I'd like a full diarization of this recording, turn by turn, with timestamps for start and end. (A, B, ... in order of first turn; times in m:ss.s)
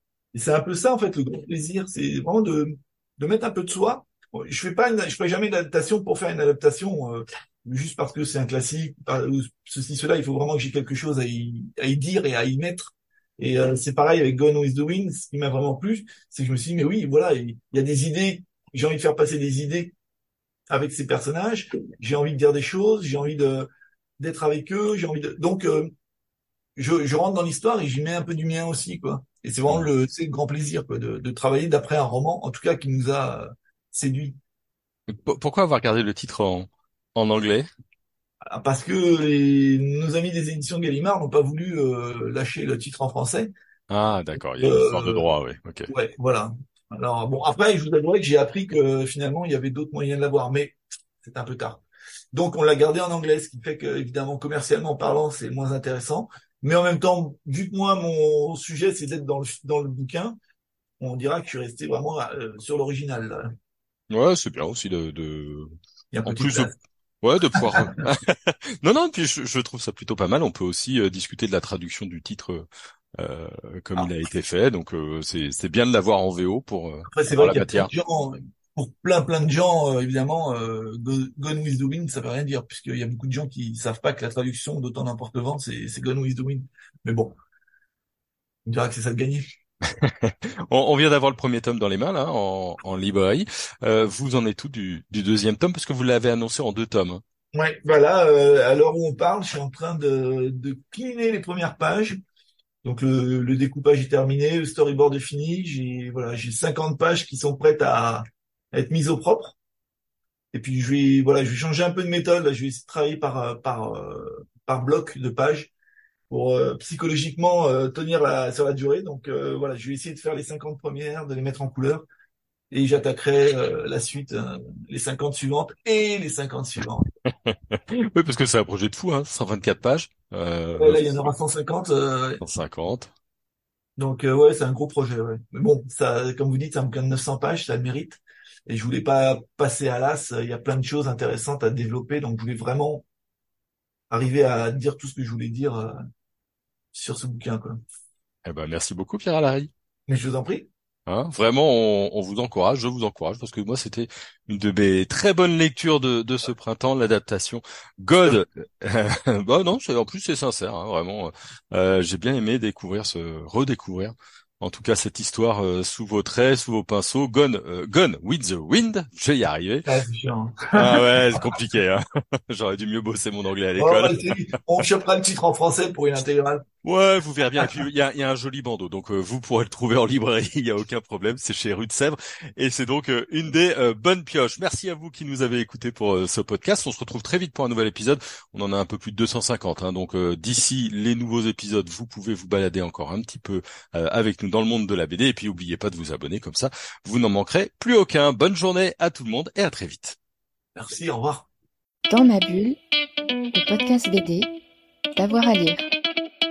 0:00.3-0:19.9 A
0:20.7-0:25.9 A
0:26.8-0:34.4 A
0:35.2-0:37.7 B
0:38.5-0:43.5 A
0:43.9-0:45.9 B
0:44.6-0:45.3 A
0:45.9-0:51.8 A
0:52.3-1:00.4 A
1:01.0-1:03.5 A
1:04.1-1:05.7 B
1:06.1-1:06.7 A
1:06.3-1:12.7 B
1:13.2-1:17.9 B
1:17.1-1:27.4 A
1:28.7-1:29.4 A
1:30.0-1:37.2 B
1:37.5-1:42.2 A
1:42.8-1:49.6 A
1:50.5-1:55.7 A
1:56.3-2:02.1 A
2:02.7-2:07.0 A
2:07.5-2:11.3 B
2:10.8-2:12.4 A
2:12.4-2:13.1 B
2:14.0-2:23.0 A
2:24.1-2:26.0 A
2:26.9-2:27.8 A
2:28.4-2:29.7 B
2:30.1-2:30.7 A
2:31.1-2:49.9 B
2:49.8-2:51.4 A
2:50.8-2:54.6 B
2:53.8-2:56.6 A
2:56.8-3:20.2 B
3:20.8-3:21.5 A
3:22.1-3:22.8 C
3:23.5-3:24.5 C
3:25.2-3:25.9 C